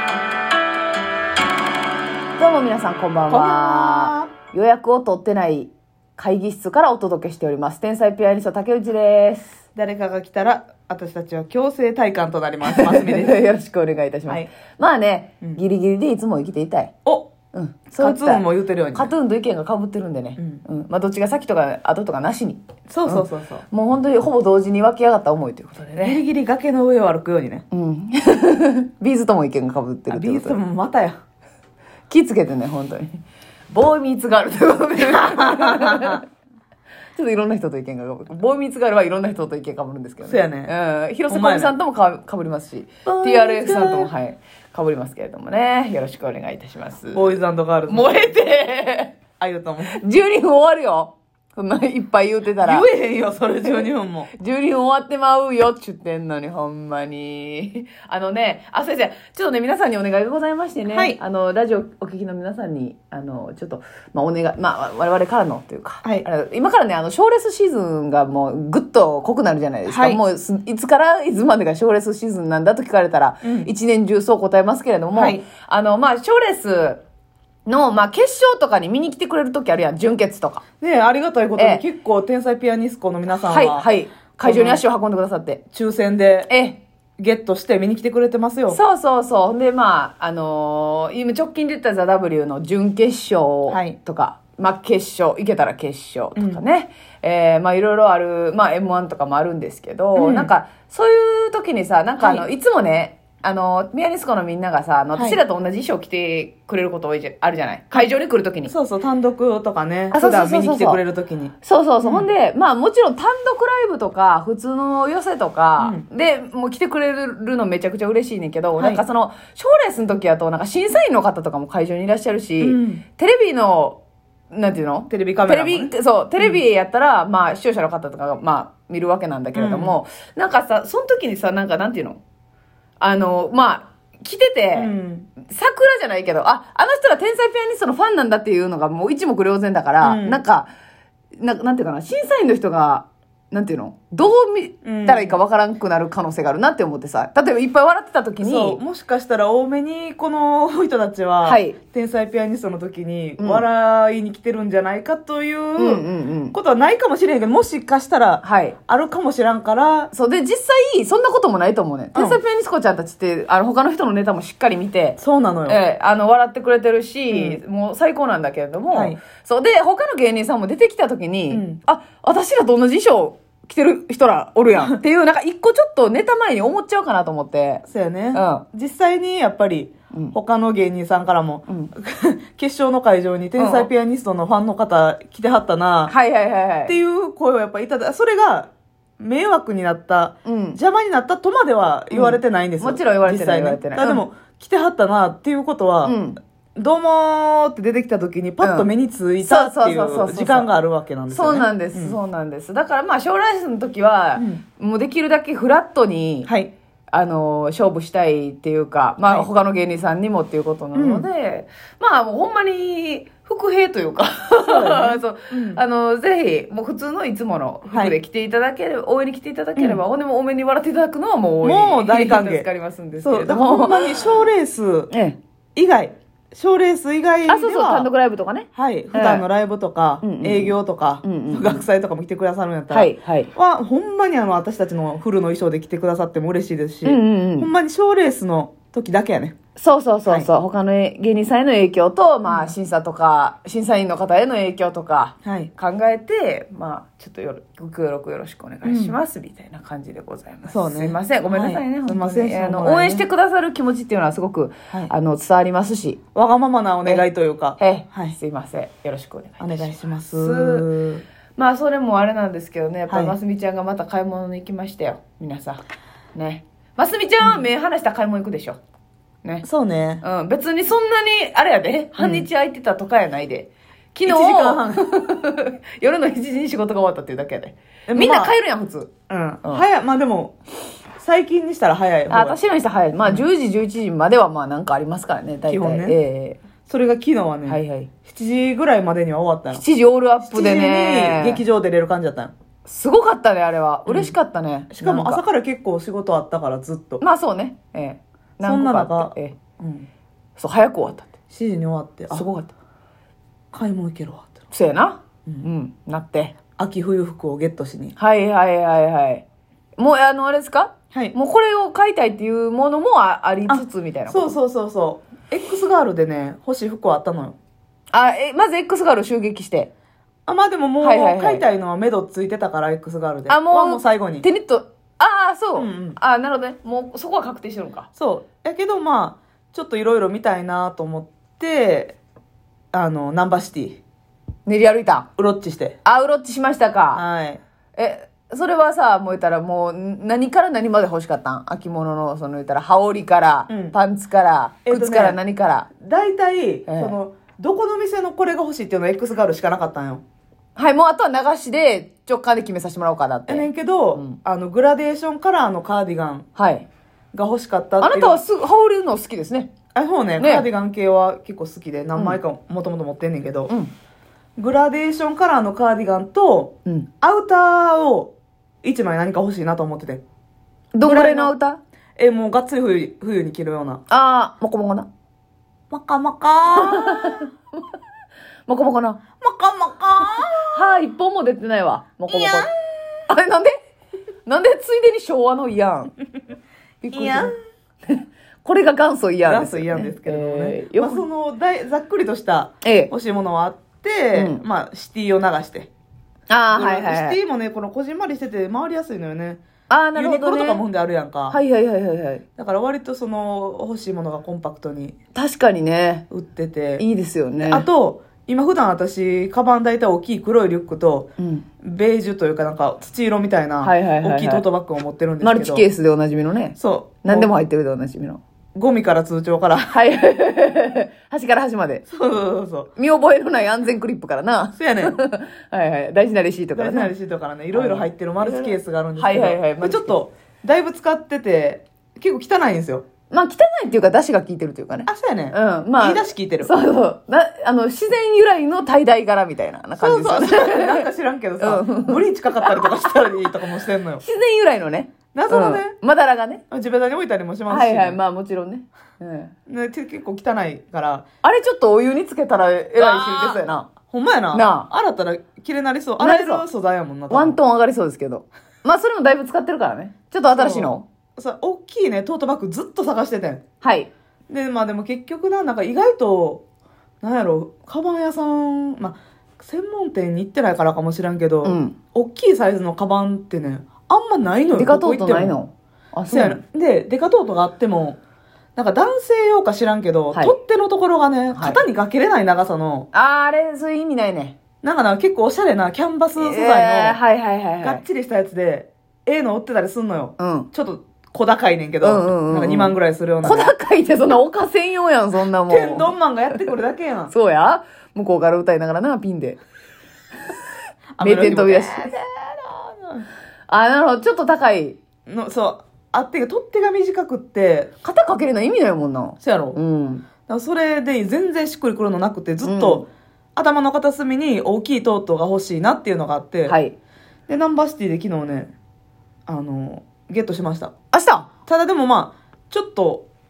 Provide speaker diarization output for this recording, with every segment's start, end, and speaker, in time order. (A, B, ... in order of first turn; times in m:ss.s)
0:02.4-0:09.6 A
0:03.3-0:04.3 B
0:09.7-0:13.4 B
0:12.6-0:16.9 A
0:17.0-0:17.3 B
0:17.5-0:26.2 A
0:18.0-0:19.1 B
0:22.9-0:23.6 B
0:26.0-0:27.6 B
0:27.7-0:30.6 A
0:30.1-0:31.2 B
0:32.1-0:36.2 A
0:35.0-0:36.2 B
0:37.2-0:47.4 A
0:40.2-0:40.7 B
0:41.3-0:41.7 B
0:43.0-0:44.1 B
0:47.1-0:48.3 B
0:47.9-0:49.2 A
0:49.4-0:50.0 B
0:49.9-0:52.8 A
0:52.6-0:54.3 B
0:54.4-1:17.0 A
1:00.9-1:01.2 B
1:09.8-1:10.2 B
1:13.4-1:13.7 B
1:15.1-1:15.4 B
1:17.6-1:20.6 A
1:20.8-1:23.9 B
1:21.6-1:21.8 A
1:23.4-1:25.6 A
1:24.4-1:24.8 B
1:25.7-1:26.5 B
1:26.5-1:26.8 A
1:27.2-1:28.8 B
1:28.7-1:48.7 A
1:33.7-1:34.0 B
1:36.4-1:36.6 B
1:40.1-1:40.5 B
1:42.2-1:42.4 B
1:45.1-1:45.4 B
1:48.7-1:52.3 B
1:50.1-1:51.0 A
1:51.6-2:04.0 A
1:55.8-1:56.0 B
1:58.8-1:59.0 B
2:02.6-2:03.0 B
2:04.5-2:12.2 A
2:05.1-2:06.6 B
2:09.5-2:10.0 B
2:13.0-2:14.9 A
2:14.7-2:15.3 B
2:15.4-2:20.7 A
2:20.0-2:20.4 B
2:21.4-2:28.8 A
2:24.8-2:25.4 B
2:28.4-2:40.1 B
2:31.4-2:31.8 A
2:33.4-2:33.6 A
2:35.8-2:36.6 A
2:38.4-2:38.8 A
2:40.1-2:58.6 A
2:42.1-2:42.4 B
2:45.2-2:45.8 B
2:47.3-2:47.6 B
2:48.9-2:49.2 B
2:51.5-2:51.8 B
2:57.8-3:06.1 B
3:01.7-3:01.9 A
3:03.6-3:03.9 A
3:06.1-3:06.9 A
3:06.9-3:16.2 B
3:10.4-3:10.8 A
3:12.1-3:14.2 A
3:16.0-3:16.4 A
3:16.8-3:22.2 B
3:18.6-3:18.9 A
3:19.4-3:20.7 A
3:21.3-3:26.5 A
3:24.4-3:24.6 B
3:26.4-3:26.7 B
3:27.1-3:44.2 A
3:29.2-3:29.5 B
3:30.9-3:31.3 B
3:34.6-3:35.8 B
3:37.9-3:38.2 B
3:41.6-3:42.7 B
3:43.2-3:45.1 B
3:45.1-3:45.4 A
3:45.7-3:48.1 B
3:47.5-3:49.4 A
3:48.7-3:59.5 B
3:50.2-3:51.8 A
3:52.9-3:53.5 A
3:57.0-3:57.7 A
3:59.8-4:16.2 A
4:02.4-4:02.7 B
4:05.4-4:05.7 B
4:08.8-4:09.2 B
4:10.7-4:13.3 B
4:16.3-4:18.4 B
4:17.8-4:20.8 A
4:19.6-4:21.2 B
4:21.6-4:25.8 A
4:23.1-4:23.4 B
4:26.3-4:28.8 A
4:29.6-4:30.2 B
4:30.2-4:39.1 A
4:32.2-4:32.4 B
4:34.2-4:35.1 B
4:38.1-4:38.5 B
4:39.3-4:40.6 B
4:41.2-4:42.6 B
4:42.3-4:46.6 A
4:45.6-4:46.2 B
4:46.8-4:49.8 B
4:47.6-4:48.1 A
4:49.7-4:51.6 A
4:50.4-4:52.5 B
4:52.8-4:55.4 A
4:54.0-4:54.3 B
4:54.9-4:57.2 B
4:57.2-4:59.6 A
4:58.6-5:00.1 B
5:00.6-5:01.3 A
5:01.5-5:02.4 B
5:02.3-5:02.7 A
5:03.7-5:04.6 B
5:04.7-5:06.5 A
5:06.8-5:08.2 B
5:08.2-5:09.4 A
5:10.0-5:14.6 A
5:13.7-5:17.6 B
5:18.1-5:19.9 A
5:20.4-5:24.4 B
5:21.0-5:21.6 A
5:23.5-5:28.1 A
5:25.8-5:26.2 B
5:28.2-5:32.2 B
5:32.9-5:34.0 B
5:34.6-5:35.3 A
5:35.4-5:36.0 B
5:36.0-5:37.2 A
5:37.1-5:37.6 B
5:38.0-5:45.9 A
5:43.7-5:44.0 B
5:44.8-5:45.4 B
5:46.0-5:50.2 B
5:46.9-5:47.2 A
5:50.8-5:54.4 A
5:53.5-5:56.5 B
5:56.5-5:56.8 A
5:57.3-5:58.4 B
5:58.0-5:59.7 A
5:59.9-6:03.7 B
6:00.4-6:00.7 A
6:04.6-6:10.2 B
6:10.9-6:11.8 A
6:11.0-6:11.5 B
6:12.2-6:14.0 B
6:14.1-6:15.1 A
6:15.9-6:17.5 B
6:16.7-6:17.8 A
6:18.7-6:19.2 A
6:19.4-6:21.0 B
6:20.7-6:22.7 A
6:22.3-6:22.7 B
6:23.3-6:23.7 A
6:24.4-6:26.2 A
6:27.0-6:27.5 A
6:27.1-6:27.5 B
6:28.0-6:31.2 A
6:29.4-6:35.9 B
6:32.8-6:33.1 A
6:34.3-6:34.6 A
6:36.5-6:37.4 A
6:36.7-6:39.6 B
6:39.9-6:40.8 A
6:40.1-6:41.6 B
6:41.5-6:42.4 A
6:42.6-6:45.1 B
6:45.3-6:46.2 A
6:46.3-6:47.0 B
6:47.0-6:47.9 A
6:47.6-6:55.8 B
6:51.4-6:51.6 A
6:53.8-6:54.6 A
6:55.4-6:58.4 A
6:56.8-6:57.5 B
6:58.7-6:59.9 B
6:59.9-7:02.0 A
7:02.1-7:02.9 B
7:03.0-7:07.1 A
7:04.7-7:05.2 B
7:06.7-7:13.0 B
7:07.7-7:10.2 A
7:13.3-7:21.1 A
7:15.1-7:16.7 B
7:20.0-7:24.2 B
7:21.6-7:23.5 A
7:24.2-7:26.6 A
7:25.3-7:26.0 B
7:26.7-7:28.2 B
7:27.7-7:29.5 A
7:29.7-7:31.2 B
7:31.4-7:33.9 A
7:33.0-7:37.6 B
7:34.5-7:34.9 A
7:36.2-7:36.6 A
7:37.3-7:41.0 A
7:40.5-7:43.6 B
7:43.8-7:44.1 A
7:44.5-7:46.6 B
7:47.2-7:55.6 B
7:51.6-7:51.9 A
7:54.7-7:56.6 A
7:56.3-7:58.2 B
7:58.8-8:03.1 B
8:01.5-8:01.8 A
8:03.1-8:04.6 A
8:04.8-8:07.2 B
8:06.4-8:08.0 A
8:07.8-8:13.7 B
8:10.4-8:10.7 A
8:12.0-8:16.6 A
8:15.7-8:17.3 B
8:17.3-8:19.6 A
8:21.2-8:23.3 B
8:21.2-8:22.1 A
8:23.7-8:25.0 A
8:25.3-8:27.9 B
8:28.0-8:30.2 A
8:29.4-8:29.8 B
8:30.5-8:36.8 B
8:32.6-8:33.0 A
8:36.6-8:36.9 A
8:37.5-8:38.7 B
8:39.5-8:40.9 B
8:41.1-8:41.5 A
8:41.7-8:43.3 B